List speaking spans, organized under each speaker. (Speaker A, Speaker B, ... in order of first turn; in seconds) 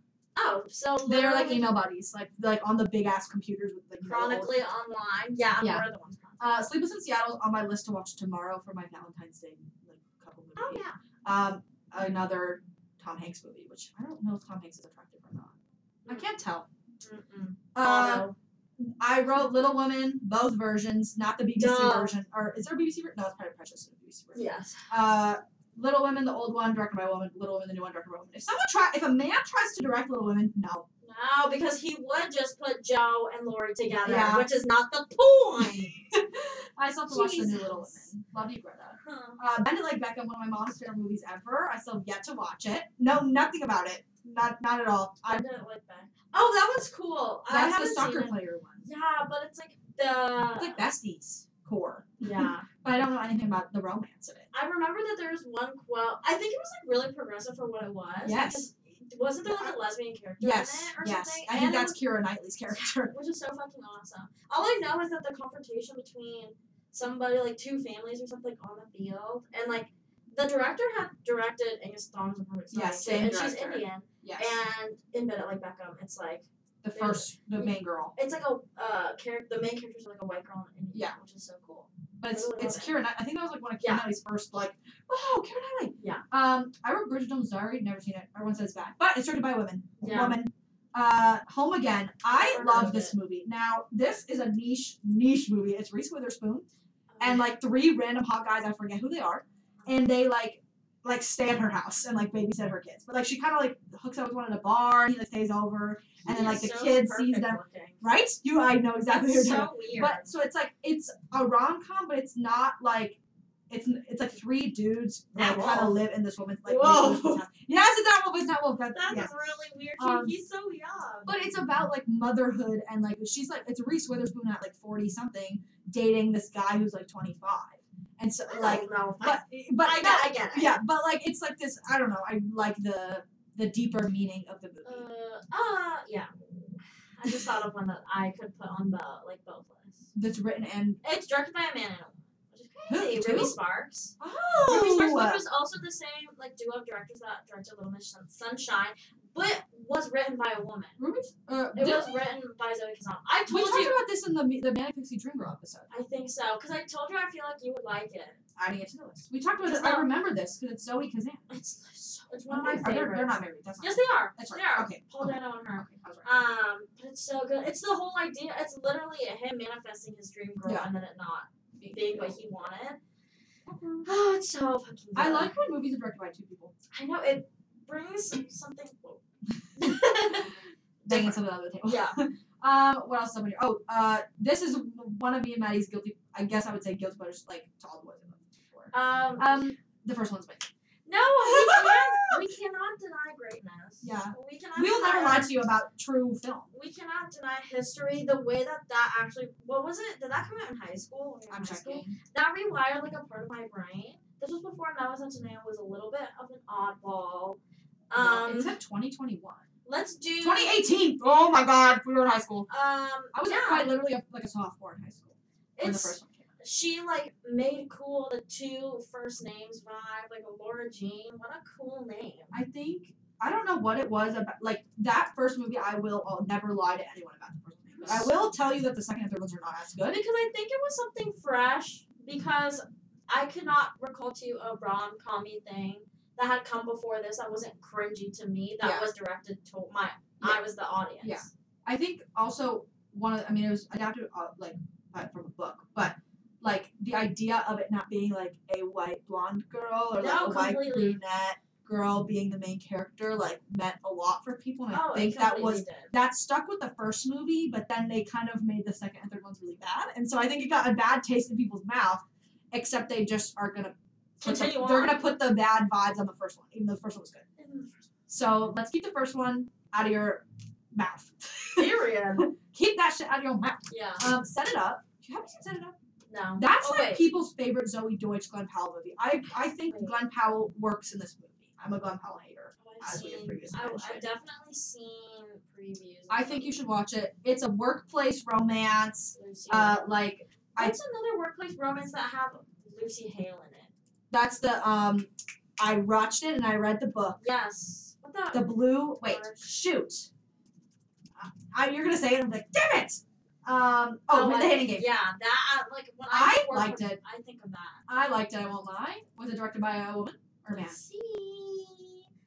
Speaker A: 0.4-1.8, 4.0-6.6, 10.6-11.0, 17.0-18.4, 21.6-22.1, 24.3-24.9, 31.0-36.0, 37.1-38.1, 39.0-39.4, 45.3-50.8, 52.2-52.7, 54.5-62.0, 62.7-83.0, 83.8-84.1, 86.0-86.2, 90.0-90.4, 92.3-93.1, 97.1-97.5, 106.2-108.0, 109.1-110.3, 115.3-116.0, 116.6-117.4, 118.9-121.4, 128.5-130.8, 134.8-140.1, 141.0-151.0, 151.7-154.0, 155.9-158.4, 159.6-160.1, 161.5-173.0, 174.1-175.6, 176.9-179.2, 179.8-182.2, 188.9-189.7, 191.1-195.5, 196.7-207.6, 208.1-208.8, 209.8-210.8, 212.7-213.9, 215.8-222.6, 227.9-228.3, 230.0-241.5, 250.2-251.2, 254.9-256.1, 264.4-265.2, 267.6-268.1, 271.8-272.5, 273.9-274.3, 276.3-277.3, 279.9-280.1, 282.8-286.8, 289.4-290.1, 290.8-293.9, 297.4-299.6, 304.3-308.0, 310.7-312.2
Speaker B: 1.1-4.6, 5.6-5.8, 6.4-16.7, 17.7-18.3, 18.8-30.9, 34.0-34.5, 35.6-45.4, 47.5-48.9, 50.5-54.5, 58.2-58.7, 59.5-59.7, 60.4-63.1, 72.7-74.5, 76.8-78.1, 82.2-96.7, 97.2-119.3, 120.0-120.3, 121.3-135.1, 140.1-141.0, 142.9-143.6, 144.2-145.4, 151.0-152.2, 153.5-155.9, 158.6-161.4, 162.5-166.3, 171.8-172.4, 173.7-174.1, 175.2-176.7, 179.8-180.5, 181.1-190.7, 191.4-192.5, 194.0-196.7, 201.5-202.2, 208.2-209.6, 210.4-212.7, 213.3-216.5, 222.5-230.2, 238.8-239.1, 241.2-267.5, 268.3-275.9, 276.6-284.3, 286.3-291.0, 294.3-297.4, 298.5-300.3, 301.4-305.1, 306.3-307.2, 308.1-311.0